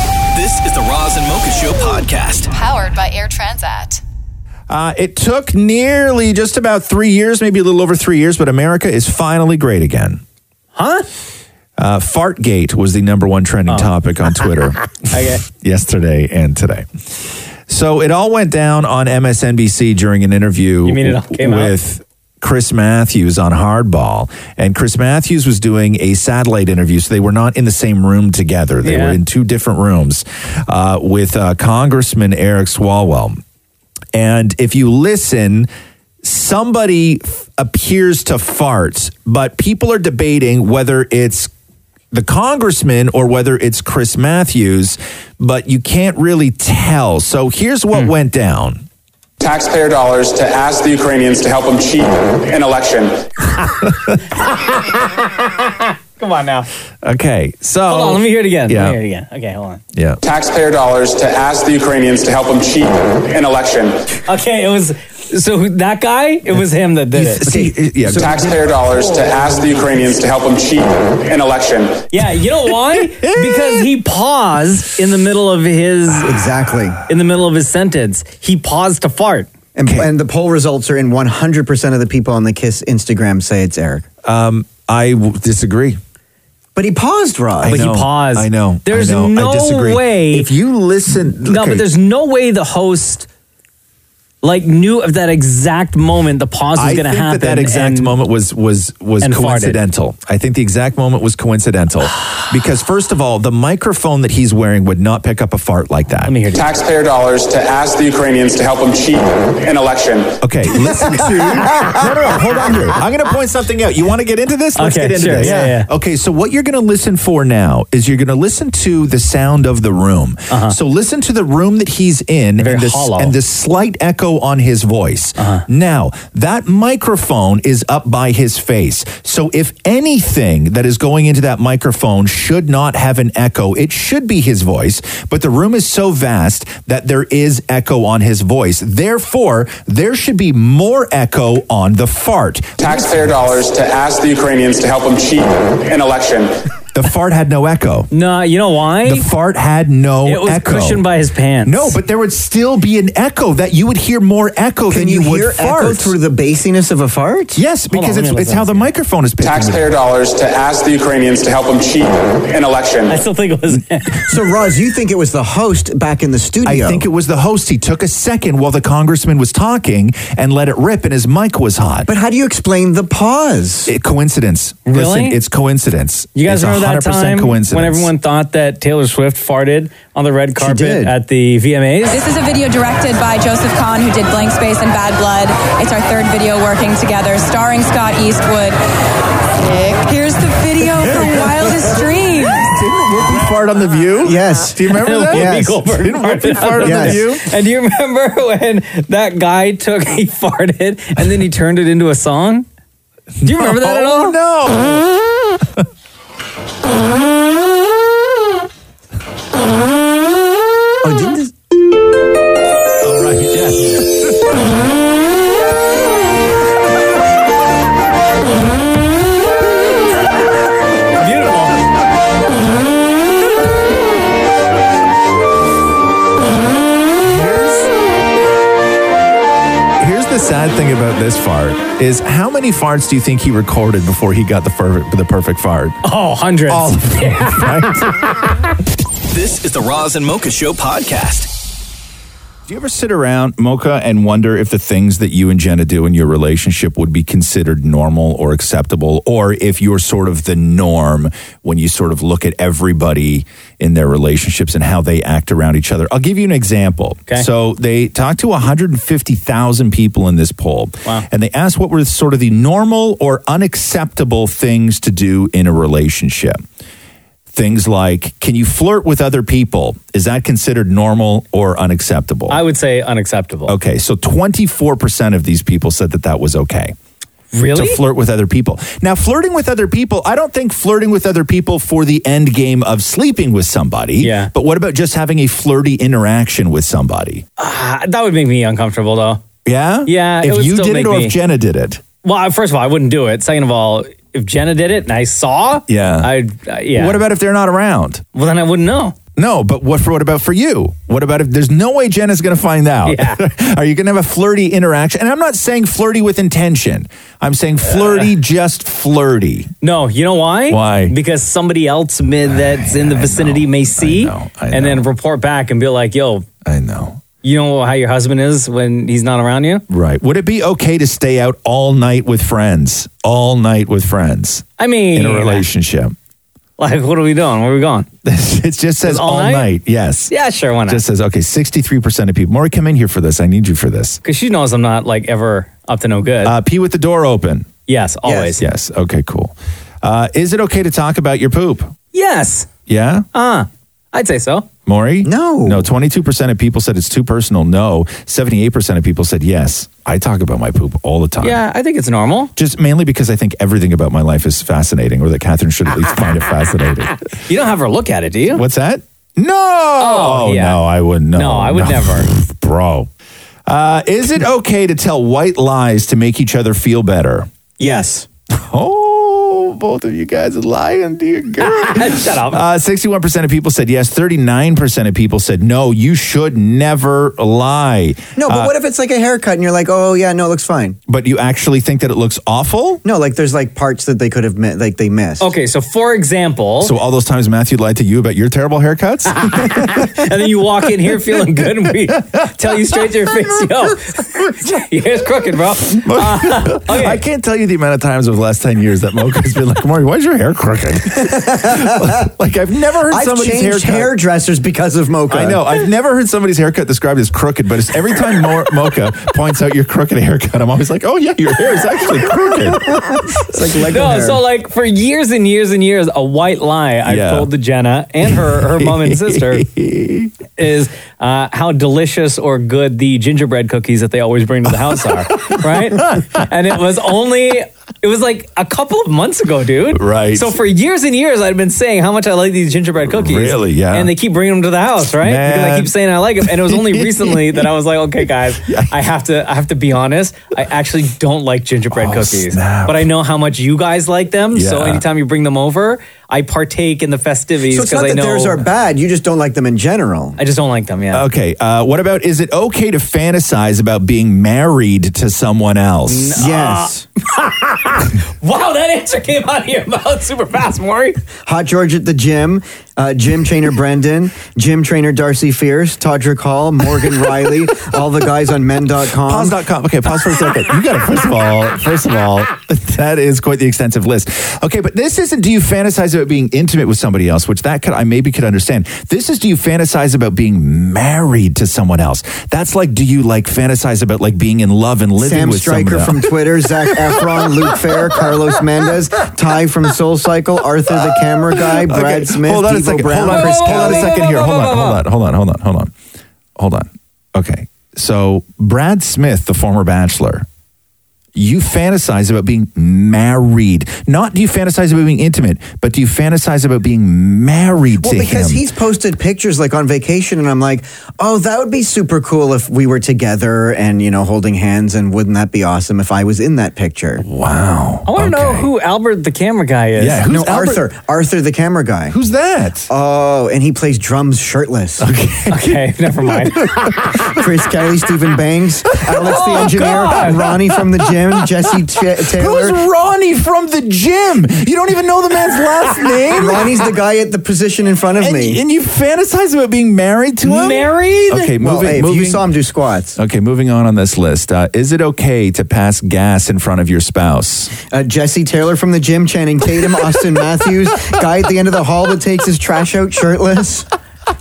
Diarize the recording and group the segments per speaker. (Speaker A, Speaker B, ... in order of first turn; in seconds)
Speaker A: 0.3-2.5, 239.3-241.5
Speaker B: 2.5-4.0, 182.1-188.8, 189.6-192.6
Speaker C: 4.7-10.2, 11.8-33.4, 34.1-35.7, 36.2-41.5, 42.1-48.8, 53.9-54.2, 57.0-59.0, 59.9-60.2, 67.1-68.5, 73.1-73.9, 84.2-86.0, 87.6-91.9, 96.8-106.4, 110.4-143.5, 146.9-148.1, 149.0-151.0, 151.7-156.2, 157.6-159.9, 166.7-172.1, 173.9-178.1, 191.2-191.5, 192.6-197.4, 203.4-205.1, 213.0-214.4, 227.2-227.9, 230.0-236.0, 236.7-238.1, 242.7-266.6, 267.5-272.6, 273.7-277.0, 277.7-287.4, 289.6-292.0, 295.9-296.3, 296.9-298.2, 299.4-309.7, 310.7-311.1, 312.5-315.1, 316.6-317.2, 319.9-326.1, 328.2-330.3, 330.9-334.2, 336.4-337.7, 338.6-341.9, 342.9-343.3, 344.9-351.6, 352.6-357.2, 358.5-363.1, 363.7-367.5, 368.5-378.7, 381.1-383.0, 386.8-389.4, 395.9-404.1, 405.3-413.0, 417.1-417.5, 418.3-420.3, 425.3-426.4, 429.9-430.6, 433.0-434.1, 435.2-435.9, 436.4-437.6, 441.9-443.1, 444.5-445.0, 451.1-456.5, 469.3-486.2, 491.8-495.9, 496.6-500.5, 501.4-508.6, 517.2-518.7, 520.0-520.8, 522.1-522.9, 525.0-525.8, 532.3-536.7, 538.2-542.4, 543.2-547.8
Speaker D: 10.8-11.1, 15.1-15.4, 20.9-21.7, 28.8-29.2, 54.4-56.7, 57.9-59.8, 64.3-67.4, 72.1-76.4, 77.1-79.5, 87.6-90.5, 91.5-93.3, 94.4-98.1, 99.2-99.8, 106.3-106.7, 114.8-115.9, 120.5-120.8, 122.6-123.3, 125.4-125.7, 148.1-149.3, 150.3-152.0, 157.9-158.9, 163.1-164.2, 174.9-175.4, 176.3-182.2, 194.9-202.7, 203.4-204.3, 221.2-221.8, 236.0-237.9, 272.5-273.7, 277.5-278.0, 284.2-284.5, 287.6-289.4, 290.1-291.4, 292.2-297.2, 298.4-299.1, 303.1-303.4, 307.9-308.3, 309.8-316.5, 317.4-319.8, 324.8-325.6, 326.8-328.1, 329.1-329.7, 330.3-331.0, 334.2-336.5, 337.9-338.6, 342.1-342.7, 343.3-344.7, 351.4-352.5, 357.5-358.6, 360.0-360.8, 361.4-362.3, 367.8-368.1, 371.6-372.6, 385.4-386.9, 389.4-397.2, 413.9-419.7, 420.6-448.6, 450.4-451.2, 456.1-461.2, 493.3-495.0, 518.1-520.2, 525.5-526.7, 529.2-530.4, 540.4-541.5
Speaker E: 49.4-53.2, 60.2-64.1, 68.2-72.1, 106.6-110.4, 142.8-146.5, 159.4-163.2
Speaker F: 67.5-69.2, 76.2-77.0, 79.8-84.1, 86.8-87.9, 111.2-111.8, 154.9-157.6, 164.3-167.1, 172.1-173.9, 180.6-181.1, 194.2-195.8, 196.8-197.2, 211.0-211.5, 338.3-338.6, 345.2-345.9, 367.8-368.2, 378.4-381.0, 383.0-385.5, 401.2-402.2, 403.1-405.6, 412.7-414.4, 447.7-450.4, 456.4-457.1, 461.5-469.5, 485.2-494.1, 508.0-517.2, 520.3-522.2, 522.9-525.1, 527.3-532.8, 536.3-538.6, 541.6-543.2, 547.9-553.9